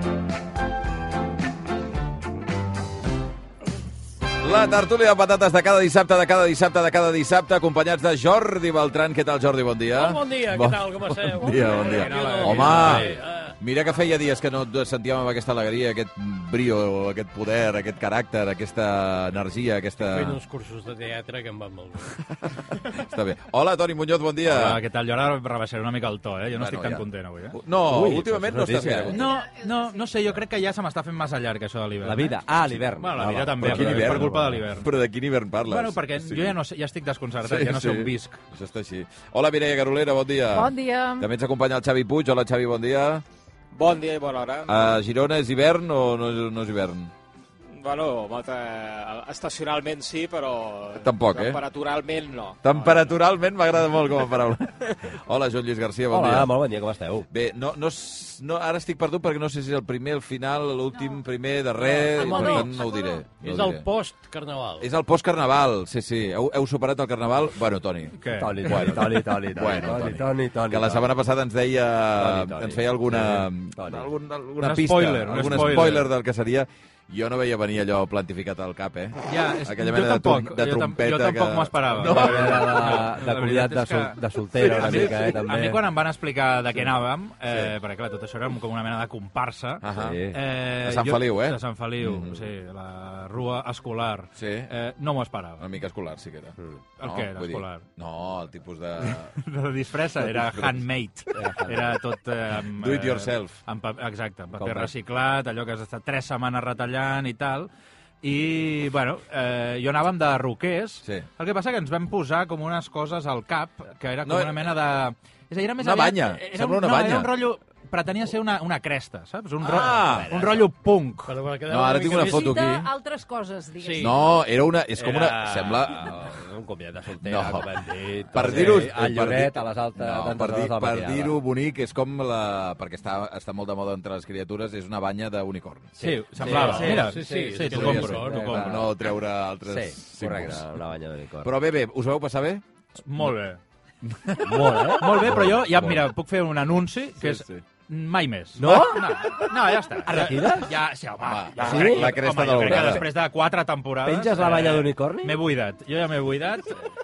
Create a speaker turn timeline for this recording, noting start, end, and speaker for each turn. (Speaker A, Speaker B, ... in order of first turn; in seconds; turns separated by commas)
Speaker A: 4.4-20.4, Speaker B: 9.9-13.6, Speaker C: 11.8-13.1, Speaker B: 20.0-22.1, Speaker A: 22.7-24.8, Speaker C: 24.4-27.6, Speaker A: 26.5-29.3, Speaker D: 27.8-29.2, Speaker C: 29.1-32.4, Speaker E: 29.1-30.1, Speaker D: 32.0-34.7, Speaker C: 33.0-34.9, Speaker A: 33.6-36.6, Speaker C: 35.7-38.4, Speaker A: 37.4-43.2, Speaker E: 40.5-41.3, Speaker F: 43.8-45.0, Speaker A: 44.7-47.1, Speaker F: 47.7-53.1, Speaker A: 51.0-51.6, Speaker A: 52.6-56.5, Speaker D: 56.1-57.3, Speaker A: 57.3-63.9, Speaker B: 62.1-62.8, Speaker E: 62.2-63.2, Speaker B: 63.4-64.9, Speaker A: 64.8-83.1, Speaker C: 68.2-69.0, Speaker D: 68.4-71.1, Speaker D: 72.1-74.1, Speaker C: 74.6-76.1, Speaker C: 79.3-95.6, Speaker D: 82.0-85.8, Speaker A: 84.7-85.2, Speaker A: 87.5-87.8, Speaker A: 89.8-92.5, Speaker D: 89.9-90.4, Speaker A: 94.4-94.7, Speaker A: 95.6-99.3, Speaker C: 97.0-97.9, Speaker C: 99.0-107.7, Speaker A: 100.2-100.8, Speaker D: 101.3-102.0, Speaker A: 102.8-103.6, Speaker D: 104.6-104.9, Speaker C: 108.2-121.3, Speaker A: 114.2-114.8, Speaker A: 115.8-117.3, Speaker A: 119.6-120.4, Speaker D: 119.7-120.7, Speaker B: 121.3-122.7, Speaker A: 121.7-122.9, Speaker E: 122.0-124.3, Speaker B: 123.8-124.2, Speaker A: 124.0-126.2, Speaker D: 125.0-131.4, Speaker A: 127.2-137.0, Speaker D: 136.0-138.9, Speaker C: 136.0-138.8, Speaker B: 136.4-138.5, Speaker A: 137.7-140.7, Speaker D: 139.7-141.5, Speaker A: 141.4-142.6, Speaker C: 143.1-143.6, Speaker A: 144.1-146.0, Speaker D: 144.4-145.6, Speaker C: 144.6-156.8, Speaker A: 147.2-147.7, Speaker D: 148.6-149.5, Speaker D: 150.0-150.7, Speaker A: 151.2-153.1, Speaker D: 151.6-153.1, Speaker D: 154.0-155.4